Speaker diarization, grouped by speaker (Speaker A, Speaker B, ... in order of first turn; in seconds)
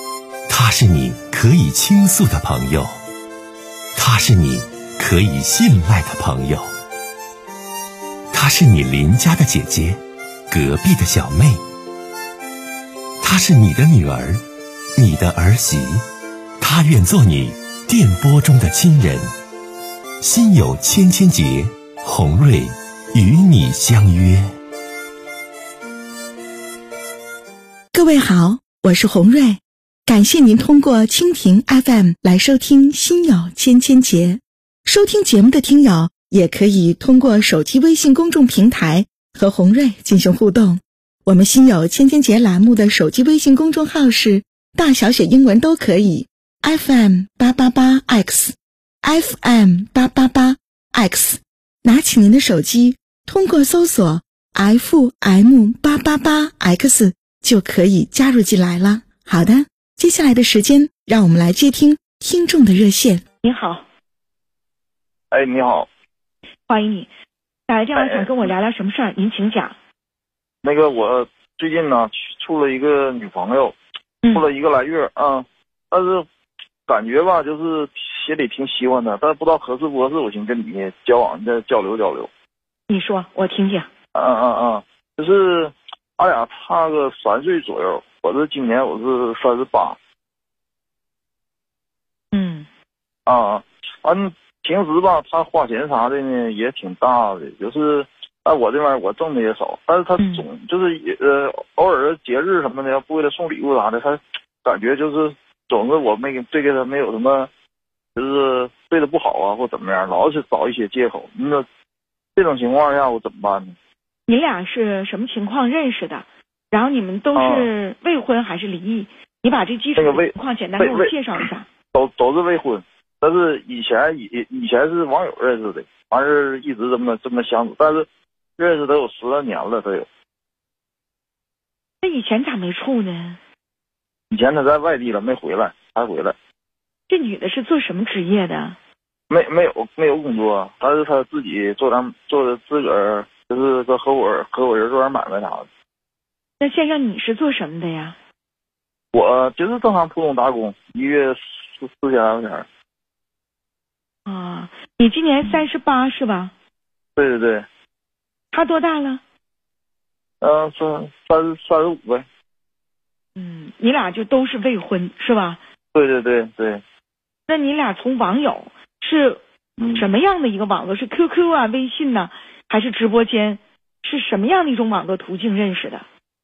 Speaker A: 0.5-2.9, 4.0-6.7, 8.3-11.6, 13.2-14.4, 14.9-16.0, 16.6-19.3, 20.2-24.4
Speaker B: 27.9-63.2
Speaker C: 63.4-63.8, 66.7-67.1, 67.7-69.7, 82.9-83.9, 92.3-92.7, 114.3-121.7, 132.0-133.4, 137.1-138.8, 146.6-148.2, 154.2-156.5, 158.5-159.2, 163.3-165.6, 167.5-169.4, 169.9-176.0
Speaker D: 65.3-65.9, 67.9-68.5, 70.6-73.8, 74.3-76.2, 76.9-82.3, 84.1-90.0, 93.2-107.5, 108.2-111.6, 112.3-113.8, 117.3-117.7, 120.0-121.1, 121.9-130.1, 134.3-136.3, 139.3-145.7, 149.1-152.7, 157.2-157.7, 160.4-162.2, 165.9-166.8, 169.8-170.1